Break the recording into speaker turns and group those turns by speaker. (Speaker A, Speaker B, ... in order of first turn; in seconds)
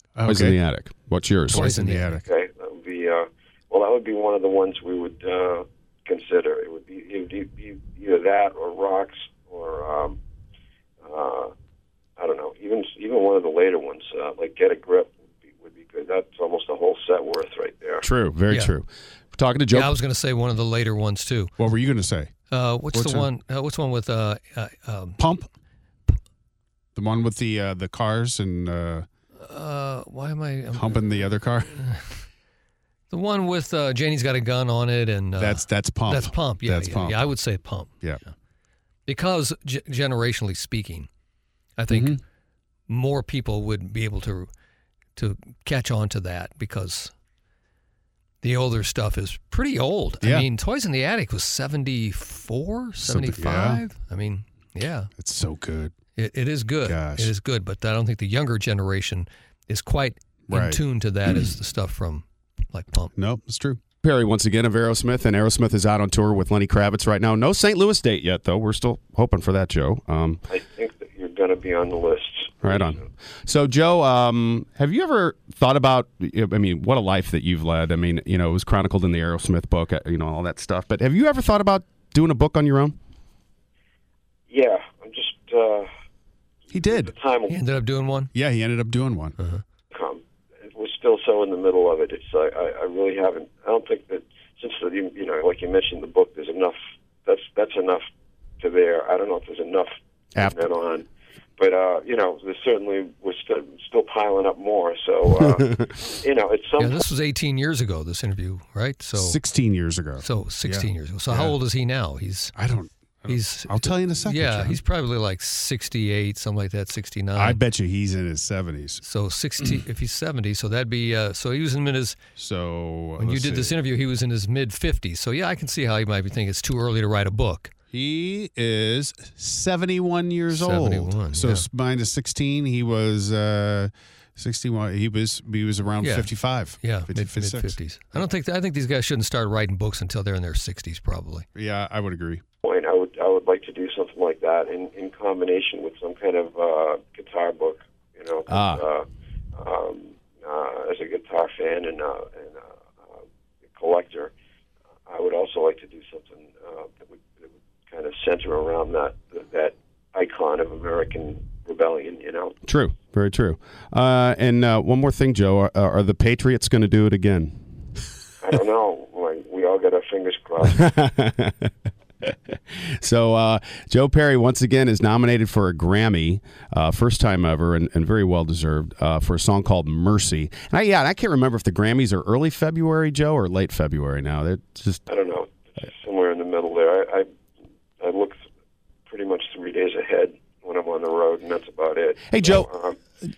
Speaker A: 0.2-0.6, 1.5-2.2, 21.6-22.3, 22.9-23.3, 25.2-25.5, 26.9-29.1, 30.7-31.9, 35.4-37.2, 41.9-42.2, 50.2-50.5, 53.0-53.9, 55.2-55.9, 56.8-57.3, 60.5-61.5, 63.1-63.8, 86.7-87.1, 88.3-89.4, 109.2-111.6, 112.6-114.8, 117.4-119.0, 122.4-123.8, 127.9-137.8, 141.6-142.4
Speaker B: 0.3-1.7, 18.0-19.9, 64.0-70.4, 72.6-83.0, 148.5-148.8, 162.7-167.6, 170.7-171.7, 172.2-185.0, 192.3-192.7
Speaker C: 1.5-2.2, 18.5-18.7, 19.7-21.5, 22.5-25.2, 29.4-32.2, 33.1-38.3, 39.1-41.1, 41.8-42.2, 42.9-44.5, 45.2-47.1, 48.4-55.1, 56.2-63.1, 87.5-88.3, 106.8-109.4, 110.2-112.5, 113.3-117.6, 119.0-122.2, 123.2-127.7, 130.5-131.7, 136.0-141.5
Speaker D: 2.1-10.2, 11.0-11.5, 12.2-18.1, 70.5-73.1, 84.5-85.9, 86.8-87.6, 89.9-98.0, 98.6-101.1, 101.6-107.0, 142.6-149.1, 149.6-154.3, 155.1-162.6, 168.4-170.9, 185.1-187.3, 188.0-188.4, 189.1-193.0